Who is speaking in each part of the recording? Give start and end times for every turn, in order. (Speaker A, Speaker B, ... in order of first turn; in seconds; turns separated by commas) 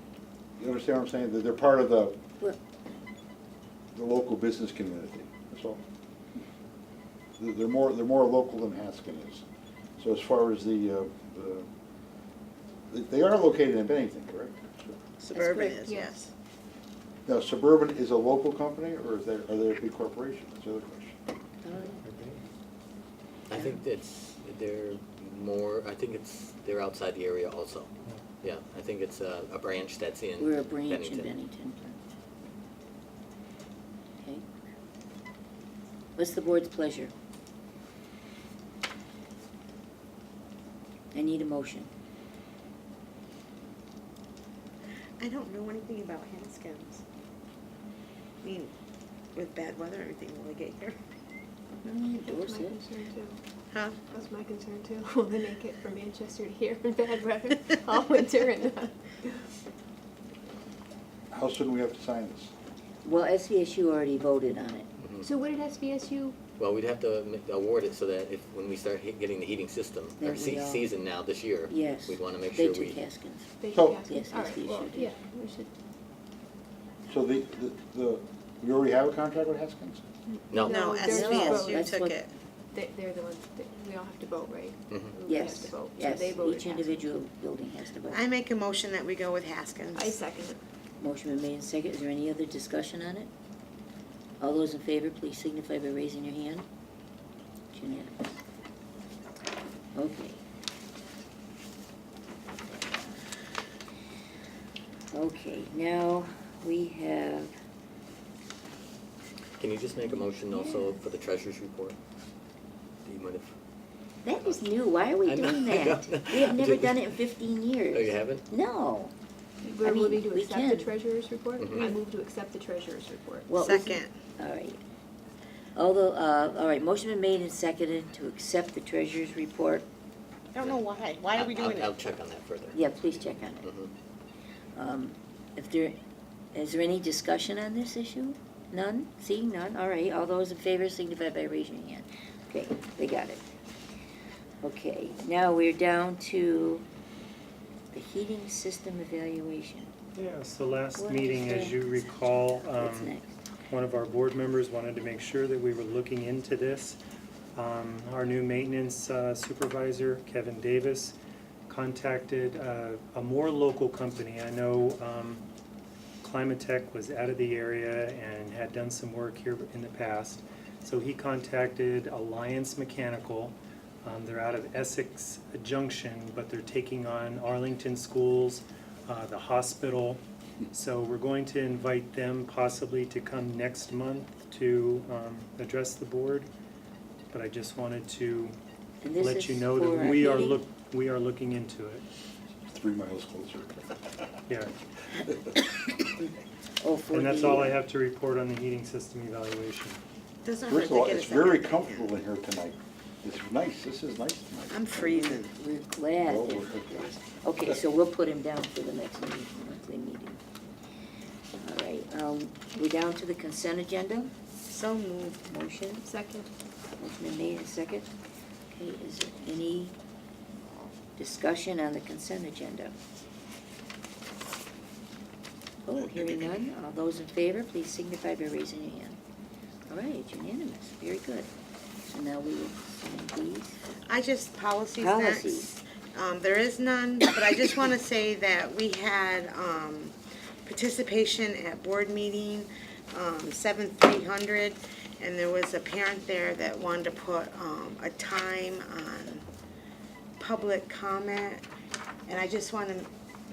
Speaker A: 0.6-2.1, Speaker A: 3.9-5.8, Speaker A: 7.4-9.4, Speaker A: 10.0-11.7, Speaker A: 12.9-15.0, Speaker B: 15.2-16.3, Speaker C: 15.3-15.8, Speaker D: 15.8-16.2, Speaker A: 17.2-21.2, Speaker C: 21.6-22.0, Speaker E: 21.7-22.4, Speaker F: 23.5-27.9, Speaker F: 28.4-31.3, Speaker C: 30.4-32.0, Speaker C: 36.1-37.1, Speaker C: 41.1-41.9, Speaker B: 45.2-47.0, Speaker B: 48.4-48.7, Speaker B: 49.3-51.0, Speaker C: 51.8-52.8, Speaker D: 52.2-53.4, Speaker B: 53.7-54.0, Speaker D: 54.1-58.9, Speaker A: 61.3-62.5, Speaker C: 63.0-64.9, Speaker F: 65.0-65.2, Speaker D: 65.2-66.4, Speaker F: 66.6-73.0, Speaker C: 70.2-70.9, Speaker C: 71.7-75.1, Speaker D: 73.6-75.7, Speaker A: 73.7-74.0, Speaker A: 77.1-80.0, Speaker D: 80.3-81.9, Speaker B: 80.6-82.3, Speaker C: 81.0-82.2, Speaker D: 82.7-87.0, Speaker C: 85.3-88.2, Speaker B: 88.1-90.2, Speaker D: 89.9-90.6, Speaker C: 91.0-93.3, Speaker C: 94.4-96.7, Speaker C: 97.7-98.4, Speaker C: 99.9-100.4, Speaker C: 102.7-103.1, Speaker C: 105.1-107.5, Speaker F: 109.6-112.0, Speaker C: 110.2-111.0, Speaker F: 113.0-113.5, Speaker C: 114.2-119.1, Speaker F: 115.2-117.2, Speaker F: 117.9-118.5, Speaker D: 119.6-123.5, Speaker C: 119.8-120.9, Speaker C: 123.5-124.8, Speaker B: 123.6-124.1, Speaker C: 125.7-129.8, Speaker B: 130.5-132.2, Speaker F: 131.3-132.8, Speaker C: 132.7-133.7, Speaker F: 133.6-133.9, Speaker C: 134.7-136.0, Speaker C: 136.5-143.4, Speaker C: 144.6-146.8, Speaker C: 147.9-149.9, Speaker E: 150.1-153.1, Speaker C: 151.0-151.8, Speaker C: 152.7-153.3, Speaker E: 153.7-157.0, Speaker E: 157.5-161.1, Speaker E: 161.7-165.4, Speaker E: 166.2-180.2, Speaker E: 180.7-186.5, Speaker E: 187.3-188.6, Speaker C: 189.0-190.6, Speaker E: 189.2-192.0, Speaker A: 192.7-194.1, Speaker C: 196.8-197.8, Speaker E: 197.1-200.0, Speaker B: 200.4-202.1, Speaker A: 200.7-205.0, Speaker B: 204.7-205.5, Speaker C: 204.9-210.4, Speaker A: 206.2-207.1, Speaker C: 211.6-214.3, Speaker B: 214.7-215.4, Speaker C: 215.5-216.1, Speaker D: 216.0-216.5, Speaker C: 217.0-218.1, Speaker C: 218.7-219.9, Speaker C: 221.2-222.9, Speaker C: 225.8-229.2, Speaker C: 229.9-231.5, Speaker C: 232.0-233.8, Speaker B: 234.1-240.1, Speaker C: 235.0-235.7, Speaker B: 240.7-249.4, Speaker B: 250.4-251.6, Speaker B: 252.3-253.1